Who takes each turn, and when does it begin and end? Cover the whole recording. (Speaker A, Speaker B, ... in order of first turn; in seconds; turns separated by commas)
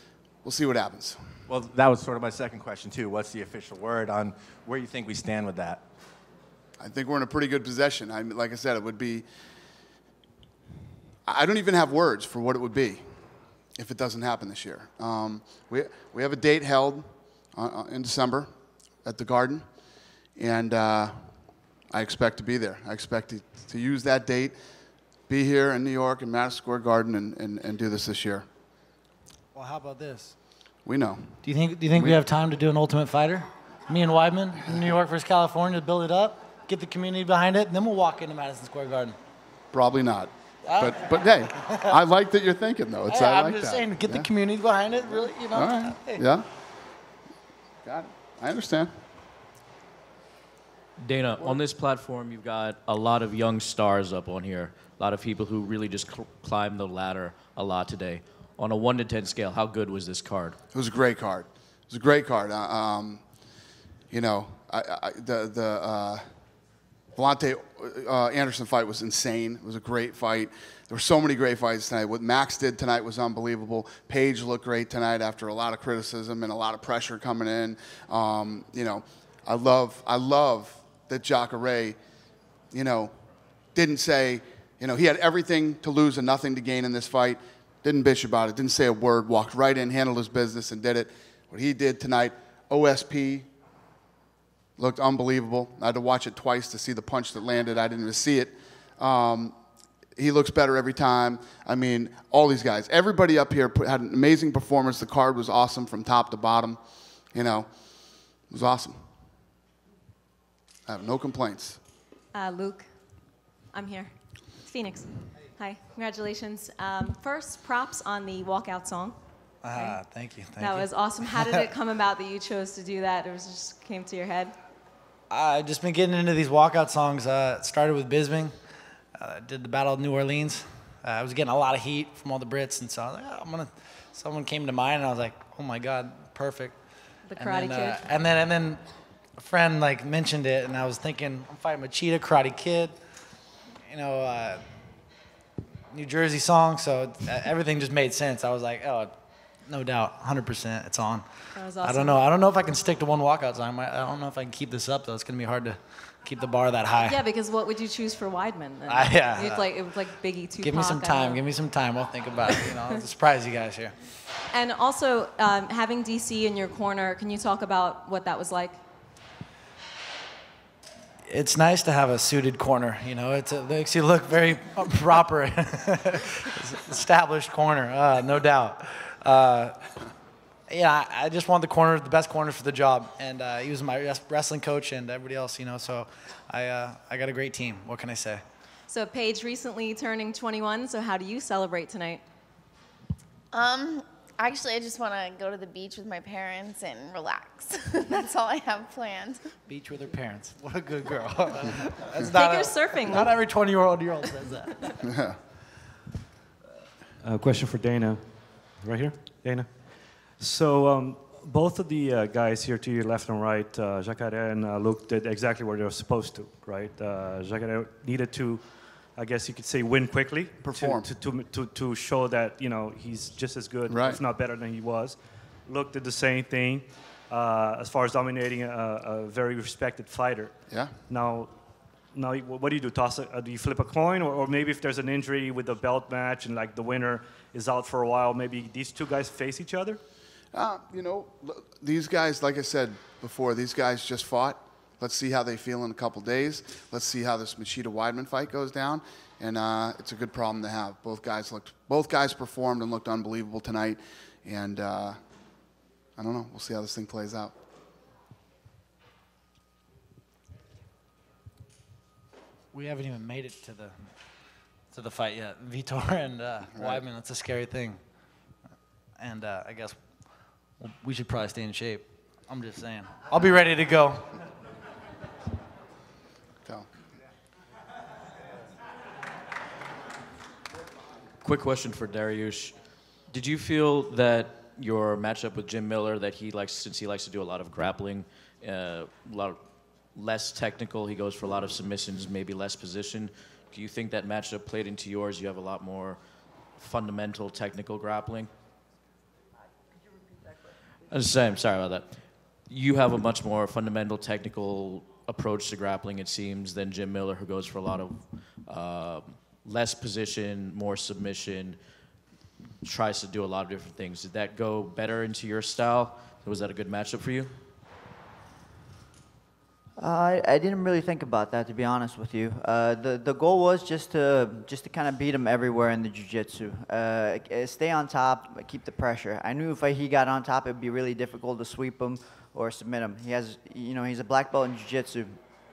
Speaker A: 0.4-1.2, Speaker B: 1.5-5.8, Speaker A: 6.8-9.2, Speaker A: 11.2-13.1, Speaker A: 13.8-18.5, Speaker A: 19.0-19.6, Speaker A: 20.4-21.2, Speaker A: 21.9-24.6, Speaker A: 25.3-28.5, Speaker C: 29.5-30.3, Speaker A: 30.8-31.4, Speaker C: 31.4-39.2, Speaker A: 39.7-44.3, Speaker C: 40.6-42.0, Speaker C: 43.1-46.2, Speaker A: 45.5-46.5, Speaker A: 47.8-48.9, Speaker D: 51.0-60.6, Speaker A: 60.7-63.2, Speaker A: 64.1-66.2, Speaker A: 67.2-82.0, Speaker A: 82.7-83.1, Speaker A: 83.7-93.5, Speaker A: 94.8-99.5, Speaker A: 100.2-106.8, Speaker A: 107.3-107.7, Speaker A: 108.5-109.0, Speaker A: 110.9-111.8, Speaker E: 112.3-112.9, Speaker E: 113.7-119.2, Speaker C: 119.6-121.6, Speaker E: 119.7-120.0, Speaker E: 120.6-124.5, Speaker C: 125.3-128.5, Speaker C: 129.2-136.8, Speaker E: 137.2-138.1, Speaker C: 137.3-138.8, Speaker C: 139.3-143.0, Speaker C: 143.9-144.6, Speaker C: 145.9-157.2, Speaker E: 151.5-152.2, Speaker E: 157.0-161.4, Speaker C: 158.8-160.0, Speaker C: 160.6-163.9, Speaker E: 164.5-168.8, Speaker C: 171.3-179.9, Speaker C: 180.7-188.4, Speaker E: 188.9-192.2, Speaker F: 193.5-199.4, Speaker C: 199.7-204.9, Speaker E: 202.3-203.3, Speaker A: 205.1-205.4, Speaker G: 207.2-231.5, Speaker A: 220.6-221.1, Speaker A: 223.9-224.2, Speaker A: 230.7-230.9, Speaker G: 232.1-240.0, Speaker A: 240.5-255.2, Speaker A: 256.2-257.5, Speaker C: 262.7-264.1, Speaker C: 264.9-268.0, Speaker C: 269.2-270.0, Speaker C: 270.8-274.4, Speaker D: 281.4-282.8, Speaker D: 283.3-296.2, Speaker D: 296.8-298.5, Speaker D: 301.1-311.8, Speaker D: 312.8-317.5, Speaker H: 320.0-335.4